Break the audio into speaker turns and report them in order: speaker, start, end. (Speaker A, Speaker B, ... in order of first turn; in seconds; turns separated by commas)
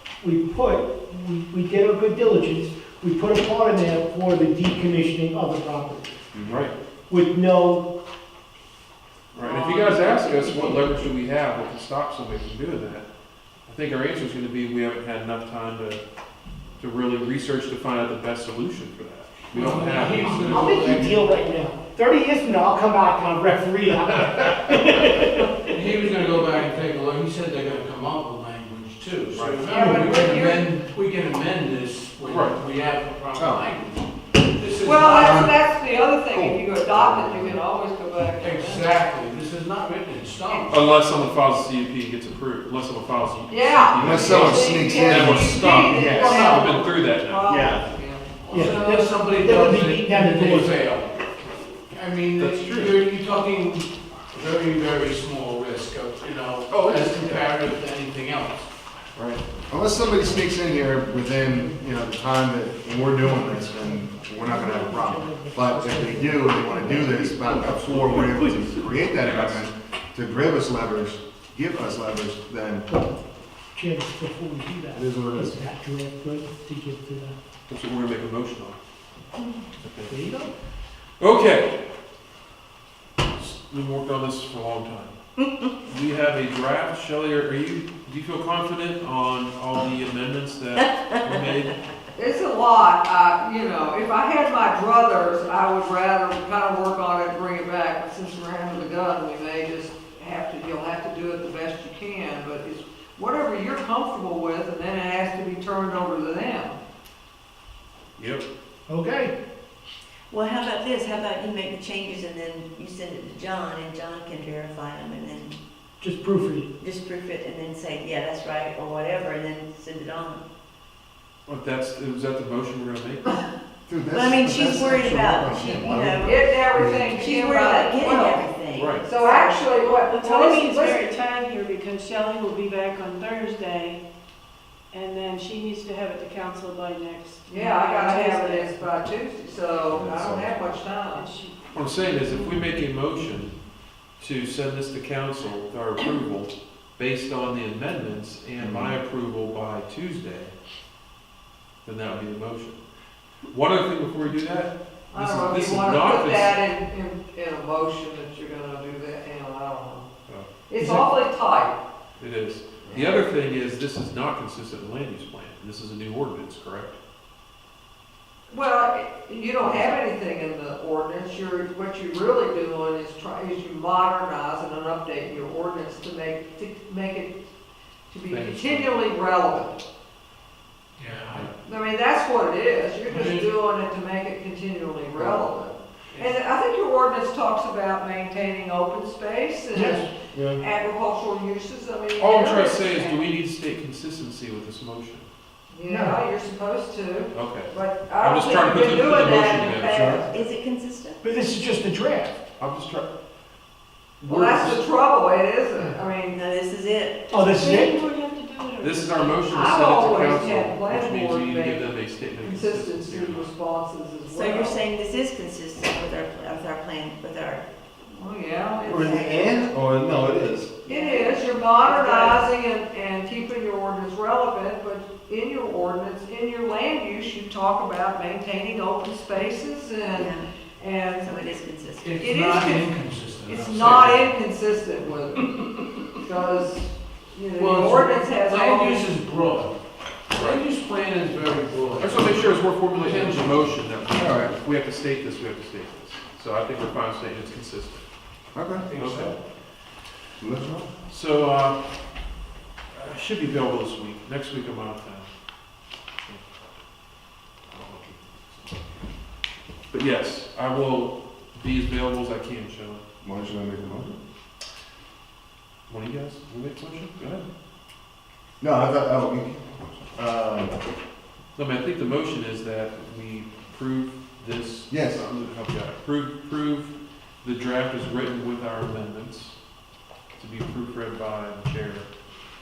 Speaker A: 0.2-6.1, Speaker B: 6.3-6.7, Speaker C: 6.5-6.7, Speaker A: 7.1-7.9, Speaker C: 9.3-13.1, Speaker A: 9.5-10.7, Speaker C: 13.7-16.0, Speaker C: 16.8-20.6, Speaker D: 19.5-21.4, Speaker A: 19.6-25.6, Speaker D: 25.7-35.5, Speaker C: 29.3-29.6, Speaker E: 29.6-30.7, Speaker A: 29.7-30.0, Speaker C: 32.3-32.6, Speaker B: 33.4-33.7, Speaker E: 34.8-38.9, Speaker B: 35.1-35.5, Speaker B: 36.3-37.6, Speaker D: 38.4-40.8, Speaker C: 40.7-47.6, Speaker E: 43.5-48.2, Speaker B: 44.0-46.5, Speaker D: 45.8-46.8, Speaker B: 47.5-47.9, Speaker D: 48.4-51.2, Speaker A: 48.5-50.8, Speaker D: 51.9-58.7, Speaker C: 52.4-53.0, Speaker C: 56.7-57.5, Speaker C: 59.1-59.4, Speaker B: 59.7-72.8, Speaker A: 63.1-68.5, Speaker C: 67.3-69.7, Speaker A: 72.9-73.2, Speaker A: 73.7-77.4, Speaker B: 74.9-75.6, Speaker C: 77.7-78.8, Speaker C: 79.8-80.1, Speaker A: 80.1-80.5, Speaker C: 81.2-81.7, Speaker C: 83.3-85.2, Speaker F: 85.4-85.7, Speaker C: 85.8-91.8, Speaker F: 91.1-91.5, Speaker E: 92.2-106.8, Speaker C: 108.2-108.4, Speaker A: 108.9-109.3, Speaker F: 110.3-115.6, Speaker A: 116.0-116.7, Speaker F: 116.8-120.4, Speaker C: 121.5-123.4, Speaker B: 123.9-127.2, Speaker F: 124.1-126.5, Speaker E: 126.2-128.5, Speaker F: 127.0-129.7, Speaker C: 128.8-129.1, Speaker E: 129.0-131.1, Speaker G: 129.8-134.0, Speaker G: 134.9-138.9, Speaker E: 137.5-141.3, Speaker B: 139.9-140.6, Speaker G: 141.1-142.4, Speaker C: 141.7-143.5, Speaker C: 144.2-150.5, Speaker B: 148.6-149.0, Speaker C: 151.8-152.8, Speaker C: 153.5-156.6, Speaker E: 155.1-160.1, Speaker E: 160.7-161.8, Speaker A: 160.8-161.1, Speaker C: 162.2-167.0, Speaker E: 162.9-163.2, Speaker E: 168.5-177.4, Speaker E: 178.1-179.8, Speaker C: 178.3-179.1, Speaker D: 181.0-181.5, Speaker E: 181.6-193.2, Speaker D: 183.1-183.5, Speaker A: 189.7-190.1, Speaker B: 190.3-190.6, Speaker C: 192.2-195.3, Speaker E: 195.7-200.3, Speaker A: 195.9-196.2, Speaker C: 197.3-200.2, Speaker F: 199.3-201.2, Speaker A: 201.2-202.4, Speaker C: 202.6-203.1, Speaker C: 204.2-204.8, Speaker E: 204.3-206.4, Speaker F: 206.2-209.5, Speaker A: 207.3-208.0, Speaker C: 208.8-213.5, Speaker E: 209.5-214.8, Speaker F: 214.3-217.7, Speaker E: 218.1-219.4, Speaker B: 218.9-220.7, Speaker F: 218.9-219.7, Speaker E: 220.8-231.6, Speaker F: 220.9-222.5, Speaker F: 230.1-230.5, Speaker F: 231.2-232.1, Speaker D: 232.0-234.3, Speaker E: 232.2-235.5, Speaker C: 233.9-234.2, Speaker D: 235.5-236.1, Speaker E: 236.2-239.1, Speaker D: 237.6-239.8, Speaker D: 240.3-243.8, Speaker C: 240.3-240.6, Speaker C: 242.0-248.1, Speaker B: 244.2-244.5, Speaker B: 248.5-248.9, Speaker D: 248.8-249.4, Speaker C: 248.9-249.3, Speaker B: 250.4-250.9, Speaker C: 251.1-251.8, Speaker C: 252.9-255.3, Speaker C: 256.2-256.6, Speaker C: 257.7-258.3, Speaker C: 259.9-263.0, Speaker B: 263.2-264.2, Speaker C: 265.9-267.5, Speaker B: 268.6-270.8, Speaker C: 271.6-279.6, Speaker B: 274.9-275.2, Speaker C: 280.4-282.1